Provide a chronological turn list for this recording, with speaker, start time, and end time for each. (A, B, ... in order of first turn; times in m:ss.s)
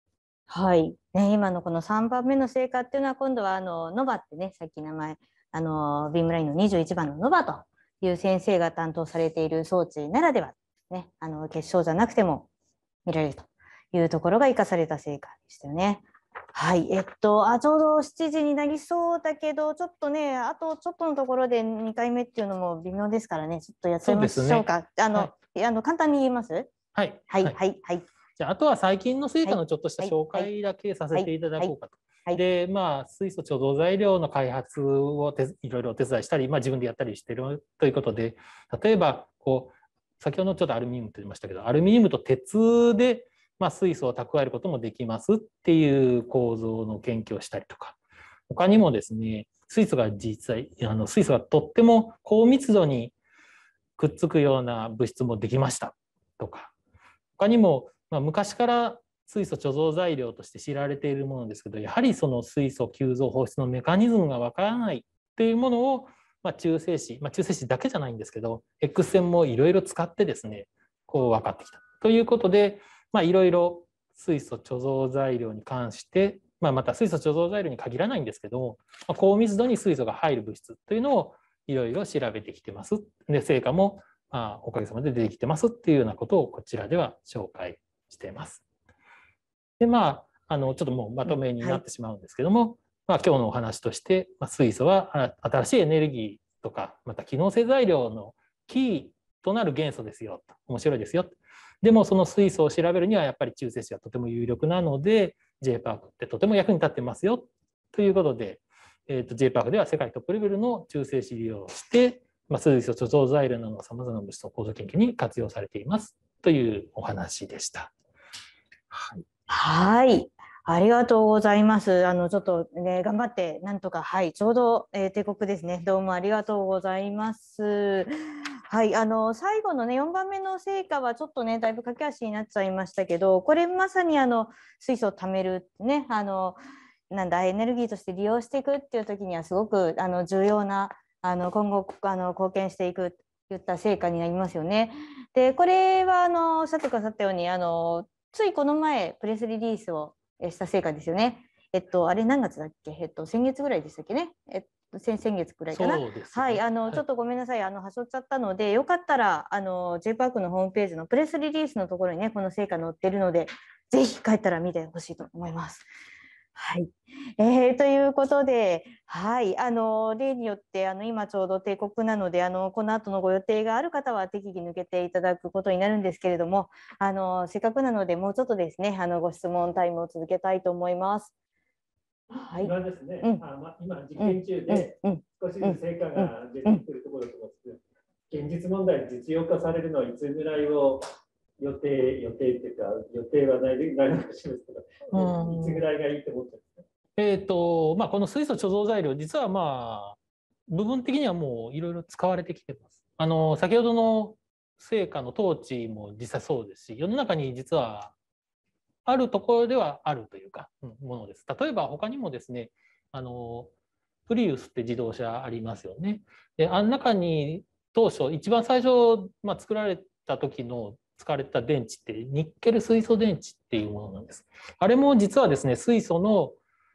0:00.5-0:12.5 A
0:13.0-0:26.7 A
0:24.0-0:25.3 B
0:26.9-0:27.6 B
0:27.3-0:28.0 A
0:28.4-0:48.0 B
0:29.4-0:30.5 A
0:31.1-0:31.7 A
0:48.5-0:53.1 B
0:54.0-0:56.7 B
0:57.4-1:28.6 B
1:29.8-1:57.9 B
1:31.3-1:31.8 A
1:58.9-1:59.2 B
1:59.5-2:08.1 A
2:08.7-2:16.6 A
2:17.1-2:45.9 A
2:35.7-2:37.0 B
2:46.5-3:01.3 A
3:02.3-3:03.4 A
3:02.5-3:11.0 C
3:04.2-3:06.8 A
3:11.6-3:16.8 C
3:15.1-3:15.8 B
3:17.2-3:28.1 B
3:29.0-3:33.7 B
3:34.3-3:46.6 B